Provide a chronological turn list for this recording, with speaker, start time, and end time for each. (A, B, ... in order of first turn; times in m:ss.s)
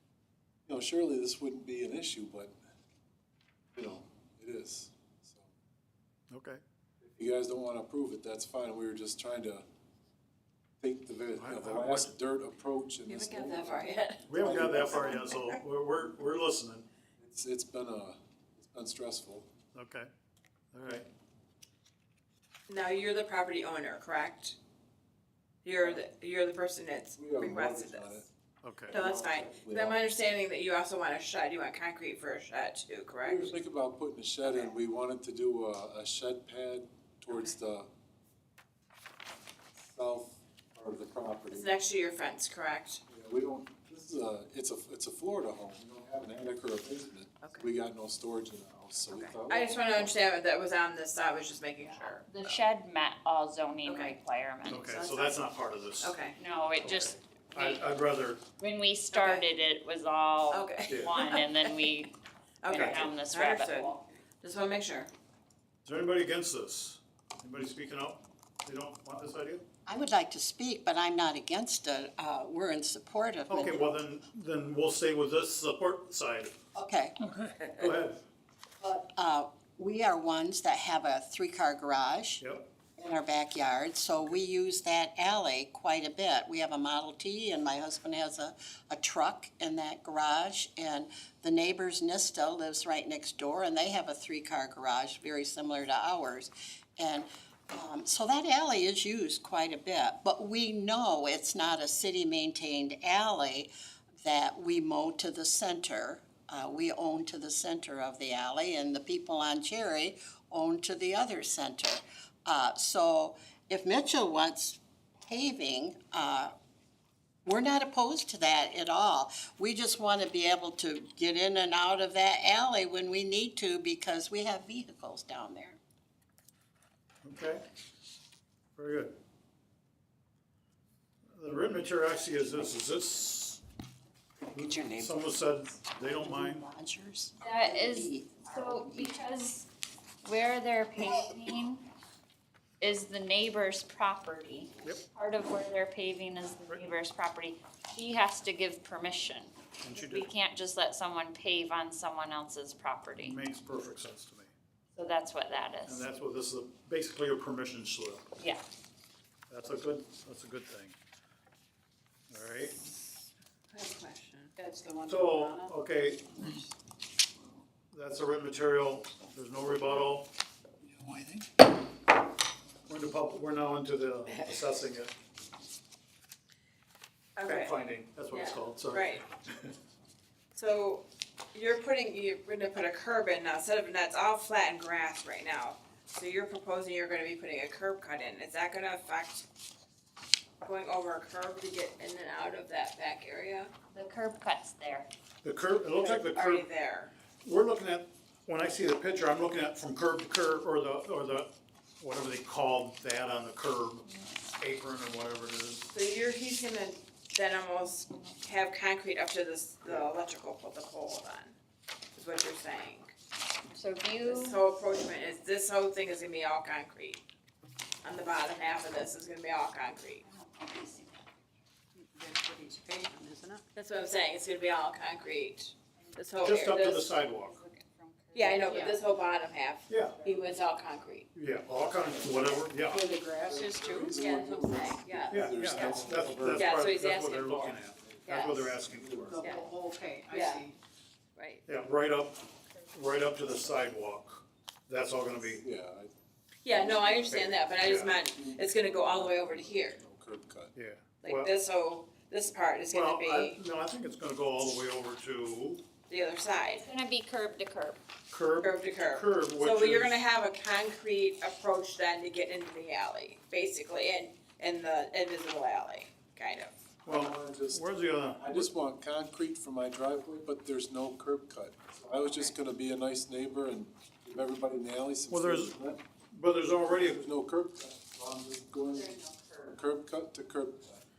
0:00.7-0:02.5 A
0:03.7-0:05.5 A
0:06.3-0:06.6 B
0:07.0-0:09.6 A
0:10.8-0:15.4 A
0:11.4-0:12.1 B
0:13.1-0:14.3 C
0:14.3-0:16.9 B
0:17.2-0:19.5 A
0:19.7-0:20.1 B
0:20.7-0:21.0 B
0:22.7-0:24.6 C
0:25.6-0:28.2 C
0:27.2-0:28.3 A
0:28.6-0:29.0 B
0:28.9-0:33.5 C
0:28.9-0:30.0 A
0:33.2-0:37.9 A
0:39.8-0:41.8 A
0:41.5-0:43.0 C
0:43.1-0:50.1 A
0:47.4-0:47.7 C
0:49.1-0:52.6 C
0:51.8-0:54.8 D
0:53.8-0:54.1 C
0:54.6-0:56.2 B
0:54.6-0:55.4 C
0:56.0-0:56.4 C
0:56.3-0:57.8 D
0:56.8-0:58.4 B
0:58.6-1:02.2 D
0:59.1-0:59.5 C
1:00.5-1:01.7 C
1:00.8-1:01.1 B
1:02.6-1:05.1 C
1:02.7-1:04.0 D
1:02.7-1:03.0 B
1:05.8-1:09.6 B
1:09.8-1:13.8 E
1:13.5-1:16.5 B
1:16.7-1:17.2 E
1:17.4-1:18.2 B
1:18.8-1:22.4 E
1:22.4-1:22.6 B
1:22.9-1:43.7 E
1:44.2-1:56.5 E
1:57.4-2:05.8 E
2:07.2-2:07.6 B
2:08.8-2:09.1 B
2:11.3-2:13.6 B
2:14.4-2:15.4 E
2:14.5-2:16.6 B
2:16.0-2:19.1 E
2:17.4-2:19.7 D
2:20.2-2:21.8 D
2:22.8-2:33.4 D
2:29.8-2:30.3 B
2:33.2-2:34.5 B
2:34.9-2:36.0 D
2:35.8-2:38.2 B
2:38.4-2:38.6 D
2:39.5-2:40.9 B
2:42.3-2:42.8 B
2:43.7-2:44.5 C
2:44.6-2:45.7 F
2:45.1-2:46.5 B
2:47.9-2:50.3 B
2:52.9-2:55.1 B
2:57.4-2:59.2 C
2:57.4-2:59.7 B
3:00.5-3:09.4 C
3:10.6-3:13.7 C
3:13.9-3:15.1 D
3:15.4-3:16.6 B
3:16.0-3:17.1 C
3:17.4-3:25.9 B
3:25.9-3:31.6 C
3:32.1-3:33.1 C
3:33.7-3:34.6 D
3:34.2-3:37.2 C
3:38.0-3:40.2 C
3:40.2-3:41.2 D
3:42.1-3:43.6 F
3:43.7-3:47.1 C
3:46.4-3:47.6 B
3:47.5-3:49.2 F
3:48.3-3:51.3 C
3:49.9-3:50.2 B
3:50.1-3:50.6 F
3:51.3-3:53.1 B
3:52.2-3:54.2 F
3:53.3-3:56.7 A
3:54.1-3:58.6 C
3:55.3-3:59.4 B
3:58.0-3:59.4 A
3:59.3-4:00.8 F
3:59.4-3:59.7 C
4:00.3-4:00.6 C
4:01.4-4:01.6 C
4:01.6-4:05.6 B
4:05.6-4:06.1 A
4:06.6-4:10.0 C
4:06.7-4:07.4 A
4:07.3-4:08.2 B
4:08.1-4:10.7 A
4:10.7-4:11.5 B
4:11.2-4:13.6 C
4:12.9-4:15.8 B
4:16.1-4:16.8 C
4:16.7-4:18.0 D
4:18.3-4:20.2 B
4:18.6-4:26.7 C
4:27.0-4:27.8 A
4:27.0-4:28.7 B
4:28.4-4:36.0 A
4:35.3-4:35.7 B
4:36.3-4:37.2 B
4:36.9-4:39.2 A
4:38.9-4:39.8 D
4:39.7-4:41.0 A